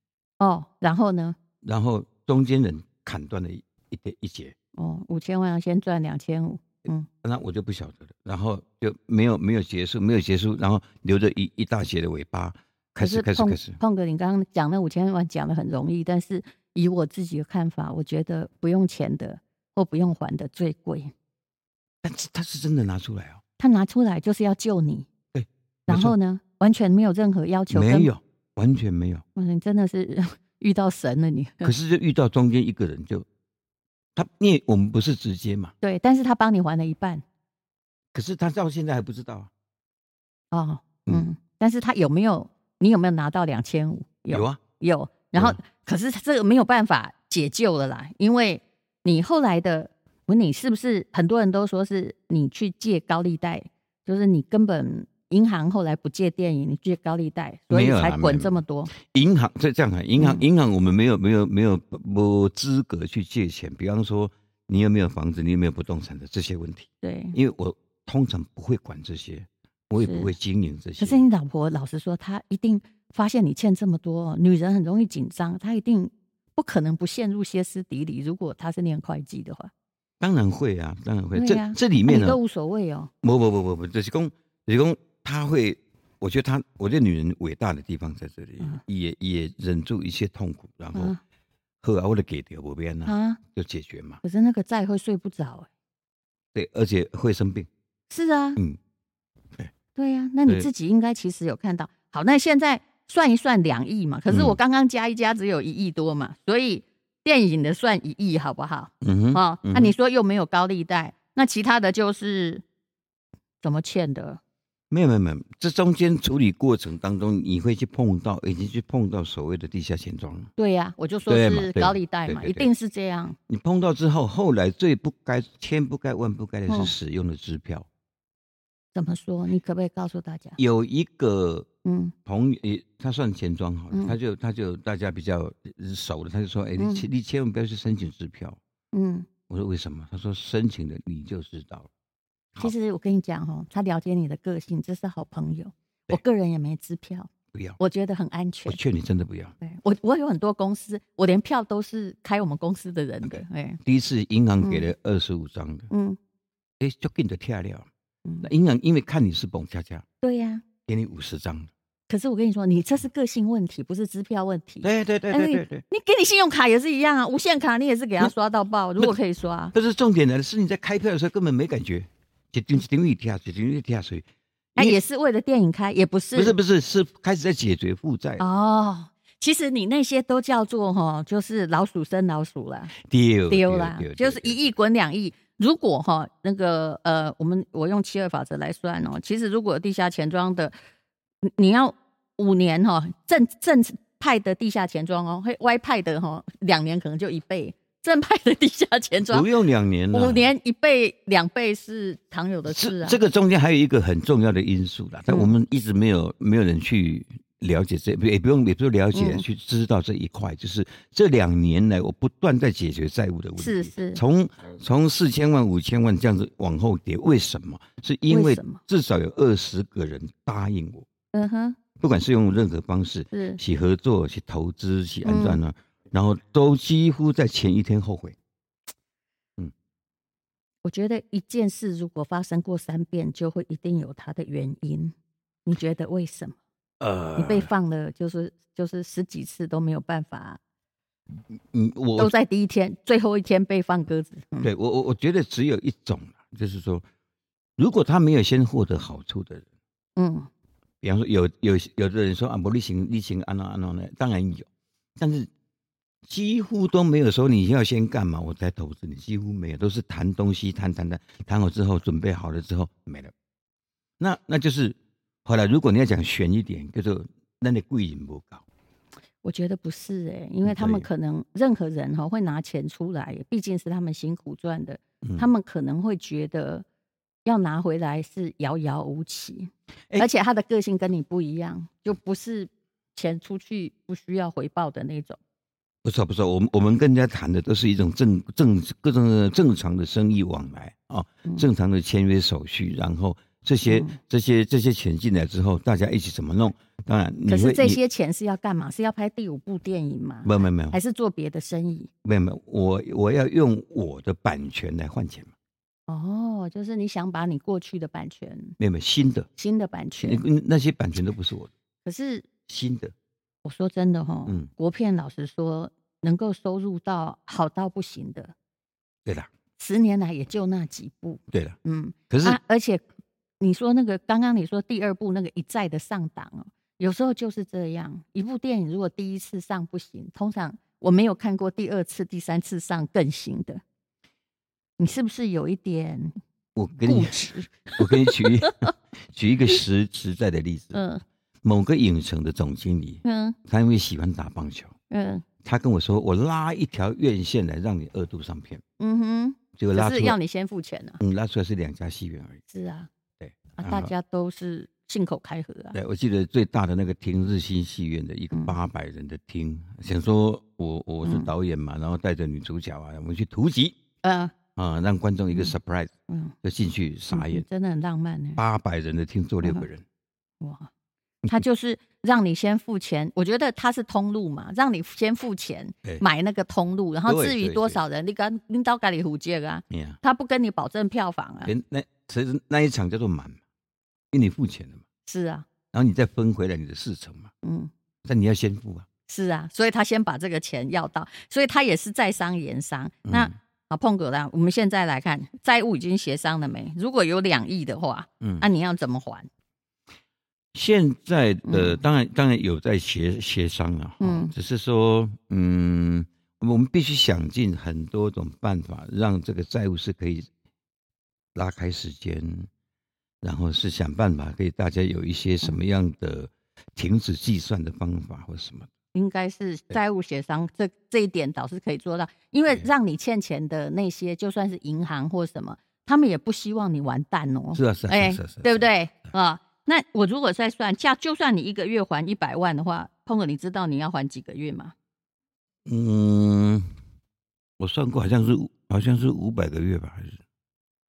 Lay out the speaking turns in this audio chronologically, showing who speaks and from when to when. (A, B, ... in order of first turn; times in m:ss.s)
0:00.4-0:01.4 A
0:01.6-0:04.5 B
0:04.8-0:07.1 A
0:07.2-0:13.8 B
0:13.0-0:21.1 A
0:22.0-0:23.4 B
0:23.6-0:25.1 A
0:25.3-0:26.2 B
0:25.9-0:28.1 A
0:27.7-0:29.2 B
0:29.4-0:31.7 A
0:31.6-0:33.2 B
0:34.2-0:35.7 B
0:35.8-0:37.2 A
0:38.1-0:39.5 B
0:40.5-0:58.9 A
0:44.3-0:44.6 B
0:57.7-1:11.2 B
1:00.2-1:00.4 A
1:07.0-1:07.4 A
1:10.0-1:10.3 A
1:11.0-1:19.7 A
1:20.2-1:22.4 B
1:21.3-1:23.1 A
1:23.2-1:31.2 B
1:30.9-1:31.2 A
1:31.8-1:34.2 B
1:33.0-1:33.4 A
1:34.2-1:35.7 A
1:36.5-1:37.7 B
1:38.1-1:38.6 A
1:40.0-1:52.6 A
1:44.3-1:44.6 B
1:49.0-1:49.9 B
1:53.6-1:54.4 A
1:54.9-2:00.5 B
2:00.6-2:03.4 A
2:01.3-2:02.7 B
2:03.5-2:07.9 B
2:08.9-2:10.6 A
2:10.6-2:11.7 B
2:11.8-2:12.1 A
2:12.2-2:18.6 B
2:16.8-2:17.0 A
2:18.9-2:19.3 A
2:19.5-2:21.9 B
2:22.6-2:28.8 A
2:27.5-2:27.8 B
2:28.7-2:29.5 B
2:29.6-2:33.8 A
2:33.2-2:35.9 B
2:34.6-2:34.9 A
2:35.9-2:36.2 A
2:36.8-2:37.9 B
2:38.4-2:40.0 B
2:40.2-2:40.6 A
2:40.8-2:41.7 B
2:42.1-2:49.7 A
2:44.8-2:45.8 B
2:49.7-2:55.0 B
2:54.8-2:56.6 A
2:56.3-2:58.4 B
2:58.4-3:02.9 A
3:03.0-3:04.6 B
3:03.5-3:10.7 A
3:11.4-3:19.4 A
3:19.3-3:20.5 B
3:20.1-3:23.2 A
3:22.6-3:41.0 B
3:25.3-3:25.5 A
3:29.1-3:29.4 A
3:33.6-3:34.2 A
3:38.3-3:38.8 A
3:41.3-3:41.8 A
3:42.0-3:48.4 B
3:43.3-3:43.6 A
3:45.2-3:45.6 A
3:50.8-3:55.1 A
3:55.6-3:56.6 A
3:57.0-3:57.7 B
3:57.4-4:00.6 A
4:01.7-4:02.3 B
4:02.2-4:04.7 A
4:04.6-4:07.0 B
4:07.8-4:09.6 B
4:10.2-4:10.5 A
4:11.0-4:15.5 B
4:16.2-4:23.3 B
4:24.2-4:28.6 B
4:29.4-4:36.8 A
4:30.6-4:31.1 B
4:35.2-4:35.5 B
4:37.4-4:45.4 A
4:46.0-4:58.0 B
4:53.8-4:54.2 A
4:57.5-5:02.1 A
5:00.4-5:01.0 B
5:02.2-5:05.5 B
5:06.1-5:08.8 A
5:08.8-5:09.5 B
5:09.6-5:10.4 A
5:10.2-5:11.7 B
5:12.0-5:12.5 A
5:12.6-5:13.1 B
5:13.6-5:18.5 A
5:19.8-5:23.0 A
5:21.5-5:21.8 B
5:22.3-5:22.6 B
5:23.6-5:33.8 A
5:35.0-5:36.3 A
5:36.7-5:41.0 B
5:37.0-5:38.9 A
5:40.9-5:41.2 A
5:41.6-5:44.9 B
5:43.2-5:43.6 A
5:45.1-5:45.4 A
5:45.6-5:48.8 B
5:49.0-5:51.2 A
5:49.8-5:50.4 B
5:51.2-5:52.6 B
5:52.7-5:53.1 A
5:53.4-5:54.1 B
5:53.8-5:56.0 A
5:55.9-6:04.0 B
6:01.2-6:01.5 A
6:04.2-6:04.5 A
6:04.8-6:06.1 B
6:06.3-6:06.5 A
6:06.6-6:07.6 B
6:07.3-6:08.6 A
6:08.6-6:10.0 B
6:10.6-6:10.9 A
6:11.5-6:21.7 A
6:17.2-6:18.0 B
6:19.9-6:20.2 B
6:21.6-6:23.6 B
6:24.3-6:25.0 B
6:25.2-6:25.6 A
6:25.9-6:27.5 B
6:27.6-6:27.9 A
6:28.2-6:29.0 B
6:29.3-6:39.5 A
6:33.2-6:33.5 B
6:38.4-6:38.7 B
6:40.7-6:50.5 B
6:41.6-6:42.0 A
6:44.2-6:44.5 A
6:51.5-6:52.7 B
6:53.4-6:58.9 B
6:59.1-7:14.9 A
7:07.7-7:08.9 B
7:15.8-7:16.9 B
7:17.8-7:20.4 B